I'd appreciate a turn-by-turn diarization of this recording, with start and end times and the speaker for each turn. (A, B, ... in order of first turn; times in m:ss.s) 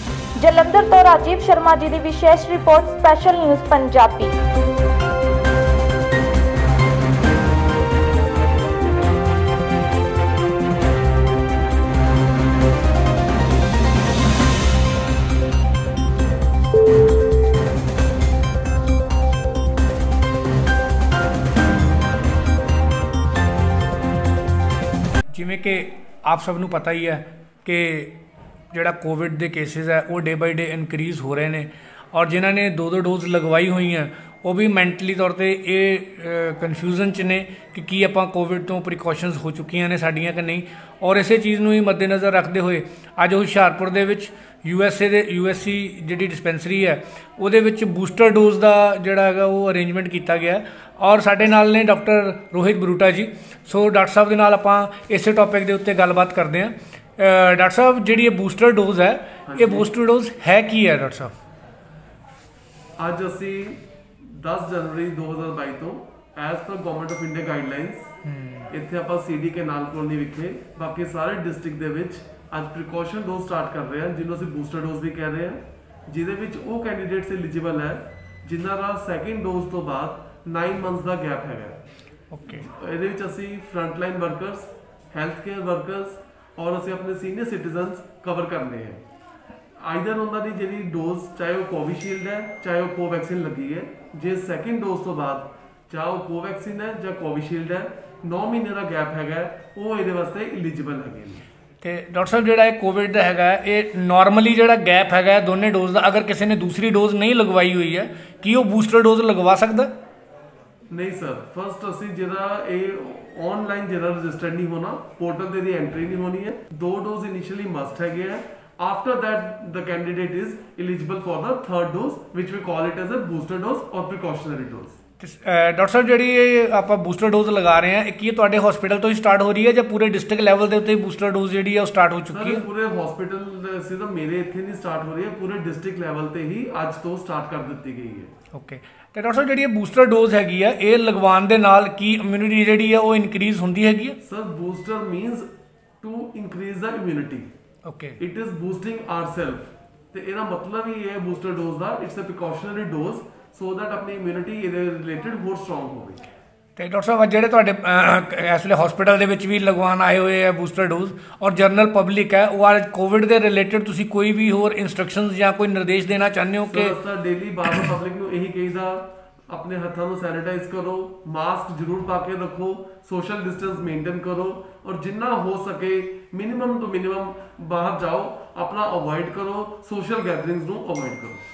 0:00.4-0:04.3 A
0:25.3-0:28.2 B
0:28.7-1:01.3 B
0:59.5-0:59.9 C
1:03.0-1:08.1 C
1:08.3-1:08.6 B
1:08.7-1:21.8 C
1:22.3-1:22.6 B
1:22.5-1:29.0 C
1:29.8-1:41.4 C
1:41.8-1:49.9 B
1:50.9-2:05.0 C
2:05.2-2:12.6 B
2:12.3-2:18.3 C
2:18.5-2:24.2 B
2:24.2-2:25.4 C
2:26.0-2:27.5 C
2:27.8-2:28.2 B
2:28.2-2:36.2 C
2:36.8-2:46.9 B
2:46.7-3:01.4 C